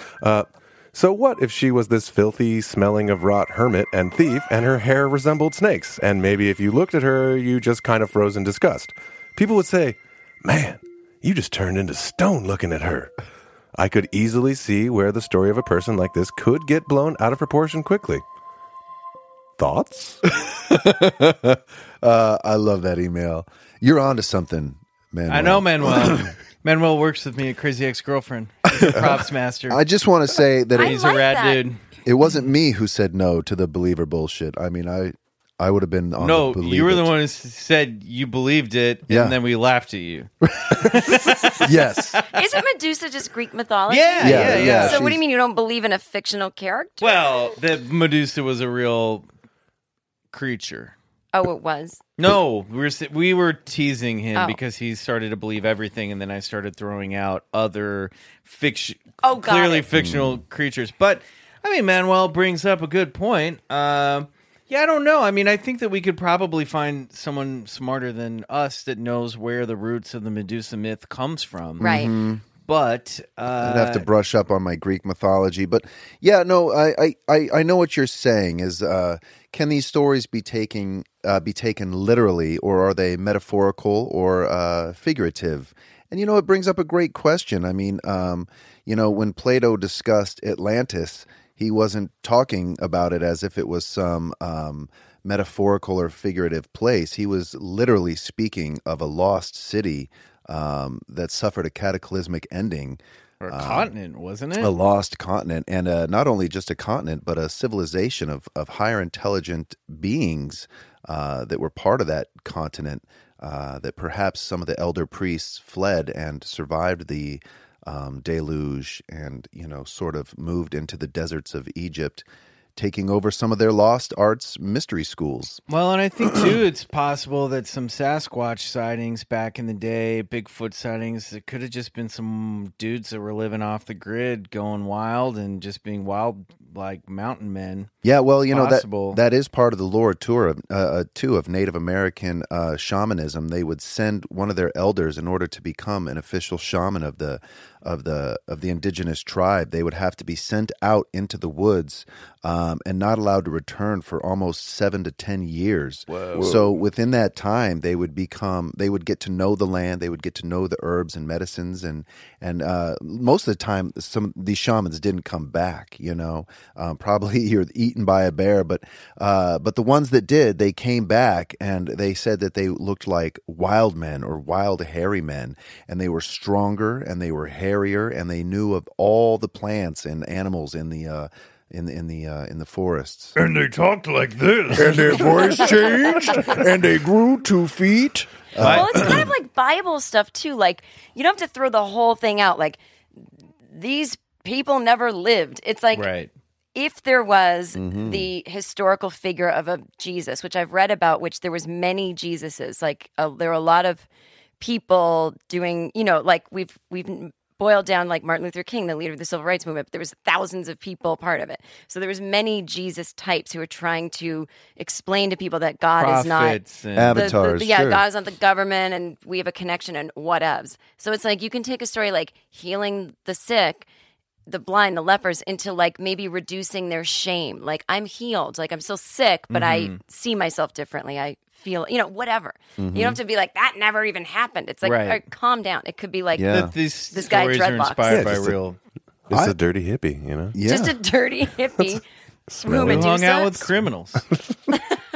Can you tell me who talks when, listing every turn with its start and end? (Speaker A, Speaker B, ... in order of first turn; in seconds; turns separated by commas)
Speaker A: 0.2-13.1, Speaker A: 13.8-18.2, Speaker A: 19.6-20.2, Speaker B: 20.4-26.3, Speaker C: 25.3-29.8, Speaker B: 28.8-31.1, Speaker D: 30.8-31.6, Speaker C: 30.8-31.8, Speaker B: 32.0-37.1, Speaker C: 36.2-42.3, Speaker B: 39.1-39.4, Speaker B: 40.6-42.2, Speaker D: 42.3-47.1, Speaker C: 43.9-45.0, Speaker B: 44.2-45.2, Speaker C: 47.0-49.3, Speaker C: 50.3-50.9, Speaker D: 51.3-52.0, Speaker C: 52.2-72.0, Speaker D: 59.2-59.9, Speaker B: 60.0-60.4, Speaker B: 71.8-72.4, Speaker D: 71.8-72.1, Speaker C: 72.6-74.1, Speaker B: 73.6-103.9, Speaker C: 103.4-104.7, Speaker B: 104.6-125.6, Speaker C: 125.7-137.9, Speaker B: 138.0-183.4, Speaker C: 138.5-139.2, Speaker C: 156.1-156.6, Speaker E: 183.4-189.2, Speaker D: 185.6-186.6, Speaker B: 188.6-189.2, Speaker C: 188.6-189.2, Speaker D: 188.6-192.8, Speaker D: 193.7-196.1, Speaker C: 195.9-196.3, Speaker D: 196.8-204.1, Speaker B: 197.8-198.3, Speaker D: 204.6-216.6, Speaker C: 216.0-217.3, Speaker B: 216.9-218.0, Speaker D: 217.1-223.9, Speaker D: 224.5-238.3, Speaker C: 229.5-230.0, Speaker B: 232.8-233.2, Speaker C: 234.8-235.2, Speaker B: 236.4-236.7, Speaker C: 236.5-238.8, Speaker A: 238.1-238.6, Speaker A: 239.3-240.6, Speaker B: 239.3-239.6, Speaker B: 240.5-241.0, Speaker D: 240.6-242.0, Speaker A: 242.5-243.1, Speaker D: 242.6-243.6, Speaker C: 242.8-244.2, Speaker D: 244.7-245.0